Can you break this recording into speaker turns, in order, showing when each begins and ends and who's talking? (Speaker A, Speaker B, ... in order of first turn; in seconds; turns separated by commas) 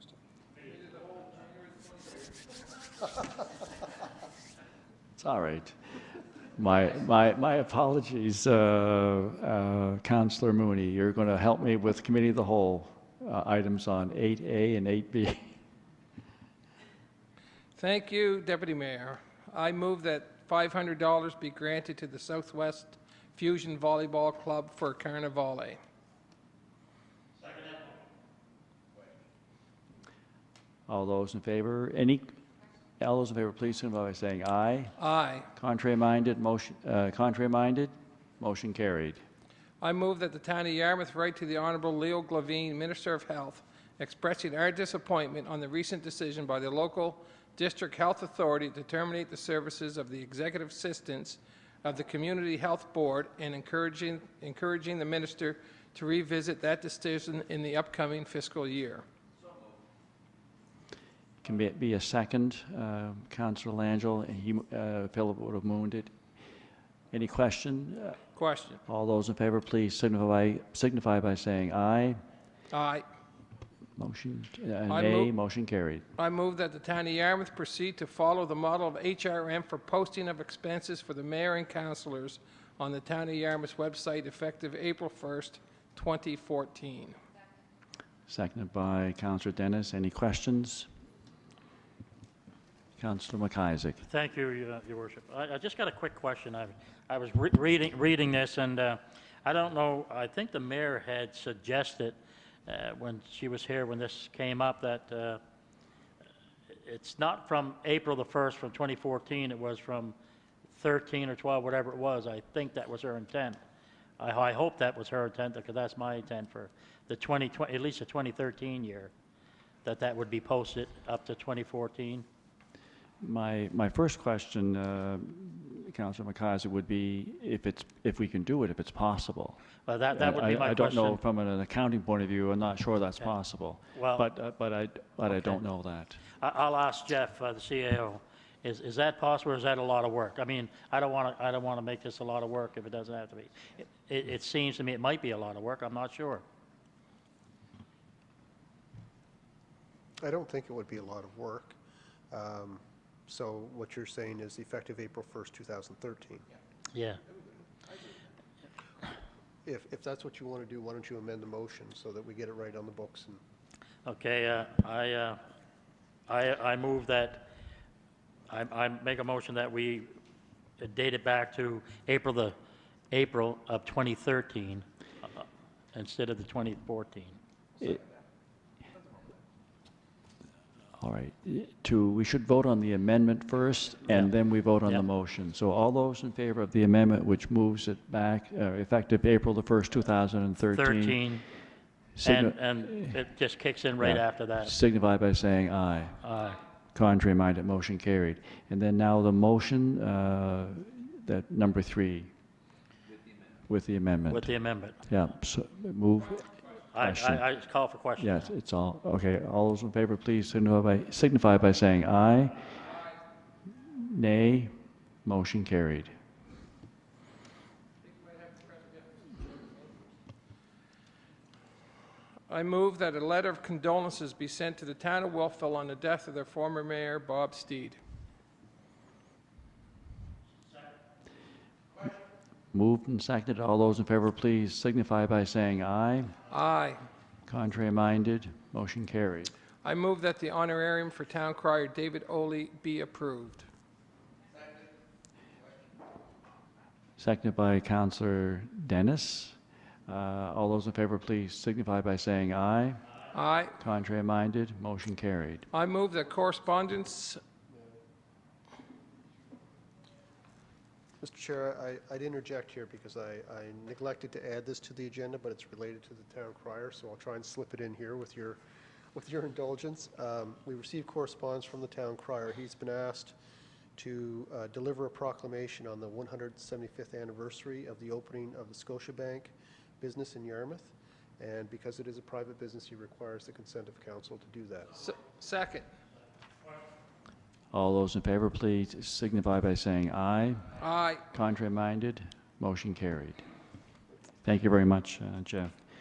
Speaker A: 0.6-2.2, Speaker B: 5.2-5.8, Speaker B: 6.6-15.6, Speaker A: 17.8-25.8, Speaker C: 27.4-27.9, Speaker B: 30.9-32.3, Speaker B: 33.0-35.0, Speaker A: 35.0-35.5, Speaker B: 35.5-39.2, Speaker A: 39.8-59.0, Speaker B: 61.4-66.1, Speaker B: 67.1-68.2, Speaker A: 68.4-68.8, Speaker B: 68.9-72.2, Speaker A: 72.7-73.0, Speaker B: 74.0-76.1, Speaker A: 74.9-75.3, Speaker A: 76.2-87.2, Speaker B: 88.3-90.9, Speaker B: 93.0-94.0, Speaker C: 94.0-105.4, Speaker C: 106.7-110.2, Speaker C: 110.7-113.6, Speaker C: 114.2-119.1, Speaker C: 119.8-122.3, Speaker B: 123.2-129.6, Speaker C: 129.9-131.2, Speaker B: 130.1-136.2, Speaker C: 133.9-134.3, Speaker C: 135.3-135.6, Speaker C: 136.4-146.4, Speaker D: 150.2-151.8, Speaker D: 152.3-156.4, Speaker C: 156.9-157.2, Speaker D: 159.7-163.4, Speaker C: 164.1-165.4, Speaker C: 166.3-167.5, Speaker C: 168.5-170.1, Speaker C: 170.8-172.6, Speaker C: 173.1-174.9, Speaker C: 175.9-177.4, Speaker B: 181.0-191.2, Speaker C: 190.7-191.4, Speaker B: 192.2-193.1, Speaker C: 192.2-194.7, Speaker B: 194.0-196.2, Speaker C: 196.2-196.6, Speaker B: 196.9-202.3, Speaker B: 203.7-204.5, Speaker C: 204.3-205.0, Speaker B: 205.1-207.4, Speaker C: 206.9-208.5, Speaker B: 208.2-212.7, Speaker B: 213.8-214.7, Speaker B: 215.2-216.1, Speaker A: 218.1-219.7, Speaker A: 222.5-228.0, Speaker B: 232.7-236.4, Speaker A: 236.5-237.0, Speaker B: 237.5-239.5, Speaker A: 239.8-243.7, Speaker B: 247.2-253.0, Speaker A: 253.3-253.8, Speaker B: 253.8-255.7, Speaker A: 255.7-257.4, Speaker D: 261.2-268.6, Speaker D: 269.1-273.4, Speaker D: 274.0-285.0, Speaker A: 285.0-285.9, Speaker B: 287.7-290.8, Speaker A: 290.8-291.2, Speaker B: 291.3-293.4, Speaker B: 294.4-295.7